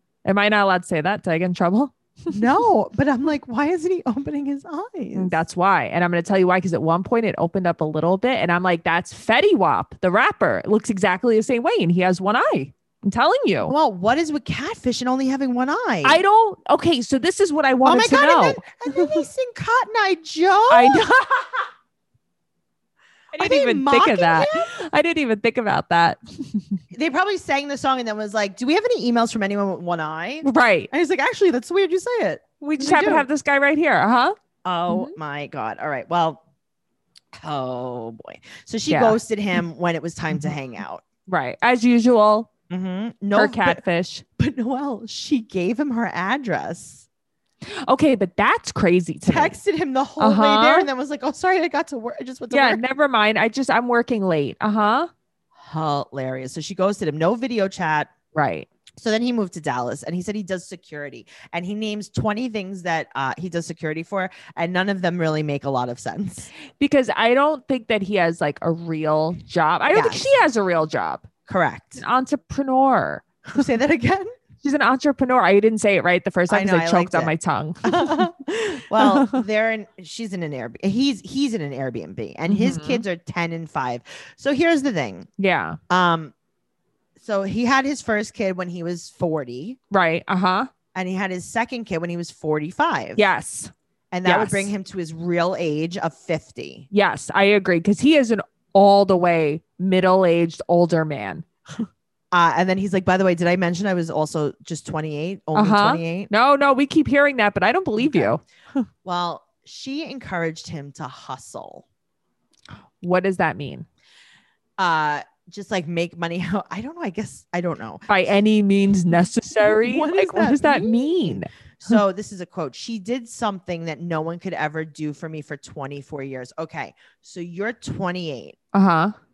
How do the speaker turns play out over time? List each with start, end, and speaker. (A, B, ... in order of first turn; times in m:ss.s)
0:00.2-0:02.4 A
0:02.3-0:05.4 B
0:05.1-0:13.7 A
0:13.6-0:16.2 B
0:16.0-0:19.2 A
0:17.8-0:21.0 B
0:20.7-0:21.7 A
0:23.3-0:26.8 A
0:23.4-0:24.7 B
0:26.9-0:33.3 B
0:30.4-0:30.9 A
0:32.6-0:34.3 A
0:34.6-0:36.4 B
0:34.9-0:35.1 A
0:37.4-0:41.0 B
0:38.9-0:39.2 A
0:40.3-0:40.6 A
0:41.3-0:42.5 A
0:42.7-0:43.8 B
0:43.3-0:44.2 A
0:44.4-0:47.0 B
0:47.8-0:49.6 A
0:49.2-0:52.8 B
0:50.2-0:50.9 A
0:52.5-0:55.1 A
0:55.6-0:58.1 B
0:58.3-0:58.7 A
0:59.0-1:06.5 B
1:06.8-1:11.2 A
1:09.9-1:10.2 B
1:11.5-1:12.0 B
1:12.0-1:13.7 A
1:13.5-1:14.3 B
1:14.6-1:18.3 A
1:16.5-1:17.3 B
1:17.8-1:25.3 B
1:19.0-1:19.4 A
1:22.5-1:23.0 A
1:25.4-1:25.8 A
1:25.9-1:26.3 B
1:27.2-1:29.8 B
1:29.9-1:30.7 A
1:30.9-1:33.2 B
1:33.2-1:33.7 A
1:34.1-1:36.9 B
1:34.2-1:34.7 A
1:36.9-1:41.8 A
1:42.3-1:46.3 B
1:45.5-1:48.8 A
1:48.0-1:48.3 B
1:49.0-1:51.8 B
1:53.0-1:53.8 A
1:54.8-1:58.1 B
1:58.1-2:01.9 A
1:59.5-2:08.6 B
2:08.7-2:09.1 A